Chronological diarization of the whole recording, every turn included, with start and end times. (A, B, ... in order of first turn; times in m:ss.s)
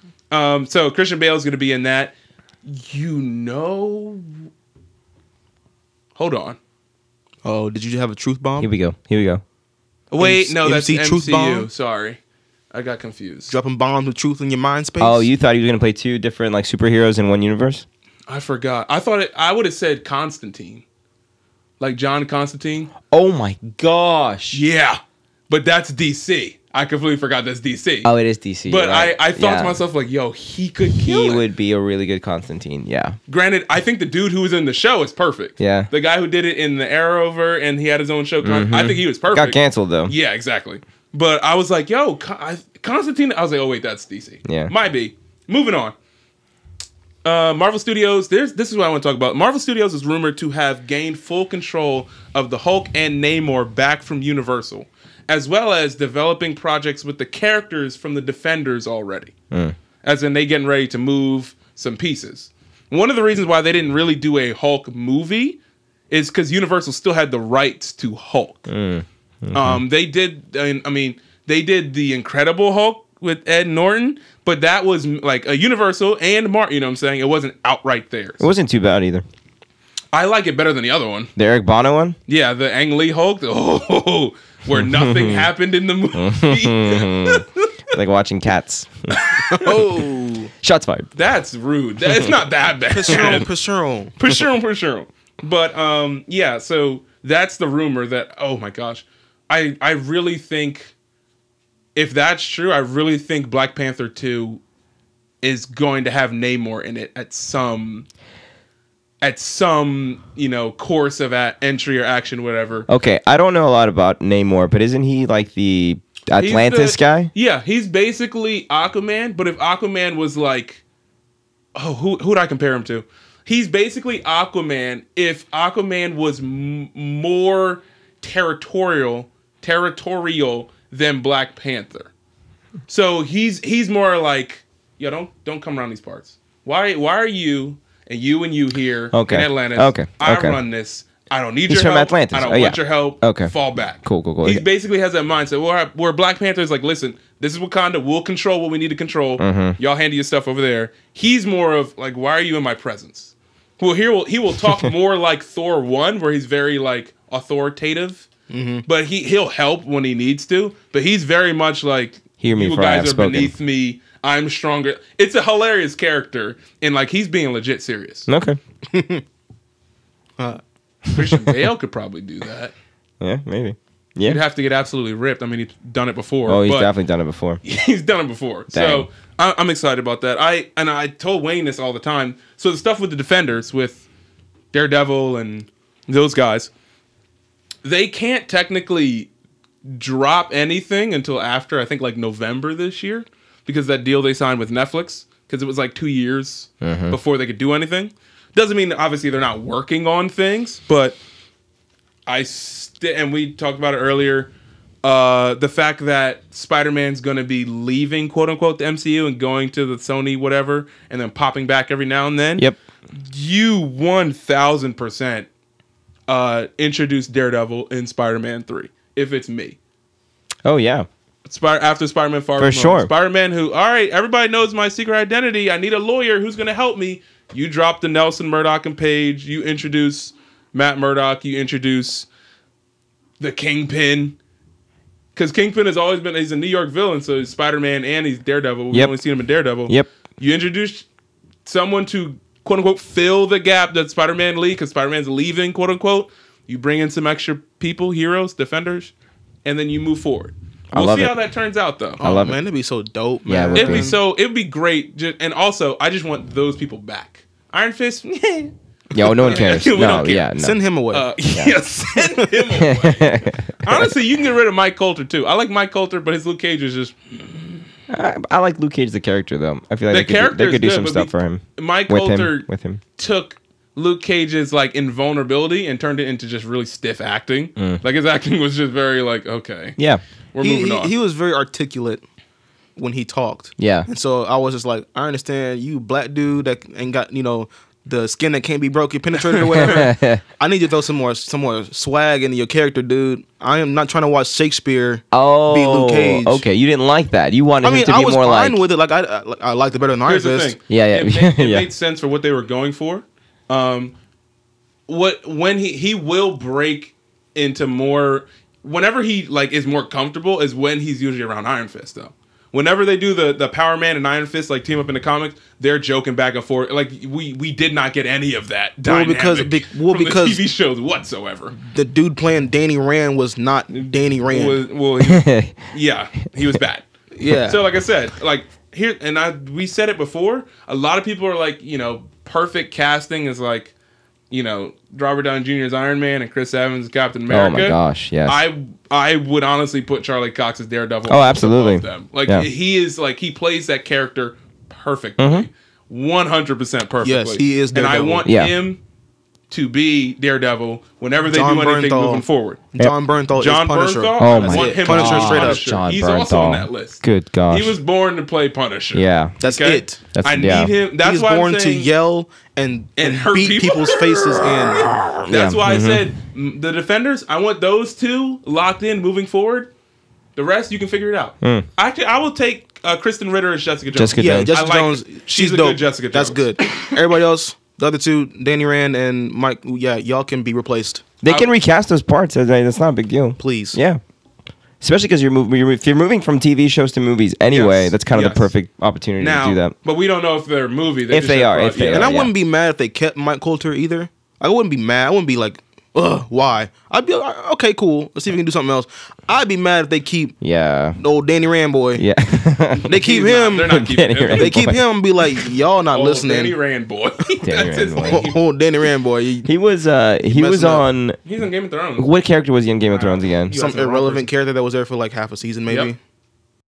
0:00.3-0:02.1 A
0:02.6-0:04.4 A
0:06.1-0:06.6 A
0:07.4-0:08.7 B
0:08.6-0:09.4 C
0:10.1-0:12.2 A
0:10.2-0:11.7 B
0:12.7-0:13.6 A
0:13.5-0:15.3 B
0:15.0-0:17.8 C
0:18.3-0:20.8 A
0:21.8-0:22.9 A
0:23.1-0:24.6 C
0:24.5-0:28.1 A
0:28.0-0:29.8 C
0:28.6-0:31.4 A
0:31.0-0:33.2 C
0:33.3-0:45.9 A
0:35.6-0:35.9 C
0:38.4-0:40.1 C
0:44.4-0:44.7 C
0:47.2-0:59.3 A
0:59.5-0:59.8 C
1:00.0-1:05.6 A
1:06.1-1:08.7 A
1:08.7-1:09.8 C
1:09.5-1:18.5 A
1:18.4-1:19.2 C
1:20.1-1:21.3 A
1:21.4-1:22.2 C
1:22.3-1:27.7 A
1:24.7-1:25.5 C
1:26.1-1:29.2 C
1:29.1-1:29.8 A
1:29.5-1:30.5 B
1:30.6-1:31.1 C
1:31.1-1:33.5 A
1:32.9-1:34.1 B
1:34.2-1:40.9 A
1:41.9-1:44.6 A
1:45.4-1:48.1 A
1:49.2-1:52.9 A
1:52.9-1:57.3 C
1:56.3-2:00.8 A
2:01.7-2:12.1 A
2:12.9-2:38.3 A
2:19.1-2:20.6 C
2:21.7-2:24.6 C
2:29.4-2:29.8 C
2:38.5-2:38.8 B
2:38.8-2:48.3 A
2:42.4-2:43.5 C
2:48.3-2:48.6 C
2:48.9-2:49.2 B
2:51.1-2:52.7 A
2:53.2-2:54.4 C
2:54.2-2:56.9 A
2:56.4-2:57.6 C
2:57.6-3:04.0 A
2:58.7-2:59.1 C
3:04.7-3:06.7 A
3:07.8-3:09.3 A
3:09.8-3:21.2 A
3:16.8-3:17.2 C
3:22.3-3:24.5 A
3:25.0-3:35.5 A
3:36.3-3:39.8 A
3:40.6-3:41.1 C
3:41.4-3:52.3 A
3:42.6-3:43.1 C
3:53.4-3:54.4 A
3:55.3-4:01.1 A
4:01.6-4:09.1 A
4:09.6-4:12.2 A
4:10.9-4:11.3 C
4:12.2-4:12.6 C
4:12.2-4:14.2 B
4:13.5-4:14.1 C
4:13.7-4:20.5 A
4:19.1-4:20.8 C
4:20.6-4:21.3 B
4:21.1-4:27.7 A
4:21.5-4:21.8 C
4:22.2-4:22.7 B
4:22.8-4:24.1 C
4:28.1-4:33.0 C
4:30.1-4:40.0 A
4:37.8-4:38.0 C
4:40.0-4:40.2 C
4:40.5-4:41.1 A
4:40.6-4:42.2 B
4:43.0-4:56.6 B
4:43.8-4:44.1 C
4:49.7-4:50.4 C
4:55.3-4:58.8 C
4:57.8-5:00.8 B
5:00.2-5:04.1 A
5:00.9-5:01.9 C
5:05.1-5:21.7 A
5:19.0-5:20.6 B
5:21.7-5:24.8 B
5:23.9-5:27.1 A
5:25.2-5:25.8 C
5:27.3-5:27.8 B
5:27.7-5:33.9 A
5:34.5-5:49.0 A
5:37.5-5:38.6 C
5:41.3-5:42.7 C
5:45.4-5:45.7 C
5:47.2-5:48.5 B
5:48.4-5:48.7 C
5:49.7-5:52.8 A
5:51.5-5:55.8 B
5:53.6-6:02.1 A
5:54.4-5:58.0 C
5:59.1-5:59.6 C
5:59.6-6:00.2 B
6:00.3-6:00.9 C
6:01.2-6:05.1 B
6:03.2-6:09.9 A
6:05.1-6:06.3 C
6:10.6-6:17.1 A
6:14.1-6:14.7 C
6:14.4-6:21.2 B
6:21.4-6:24.2 C
6:23.6-6:24.0 B
6:25.0-6:29.9 C
6:27.7-6:28.7 A
6:29.4-6:32.3 A
6:31.3-6:32.5 C
6:32.1-6:40.6 B
6:40.6-6:41.2 C
6:41.2-6:42.2 B
6:42.1-6:43.2 C
6:43.0-6:44.0 B
6:43.1-6:44.8 A
6:43.8-6:45.0 C
6:44.5-6:46.8 B
6:46.1-6:48.6 A
6:47.6-6:48.5 C
6:48.2-6:49.7 B
6:49.6-6:51.4 C
6:50.5-6:51.0 B
6:51.4-6:52.3 A
6:52.2-6:53.8 C
6:53.1-6:54.5 A
6:53.7-6:56.2 B
6:55.9-6:56.1 A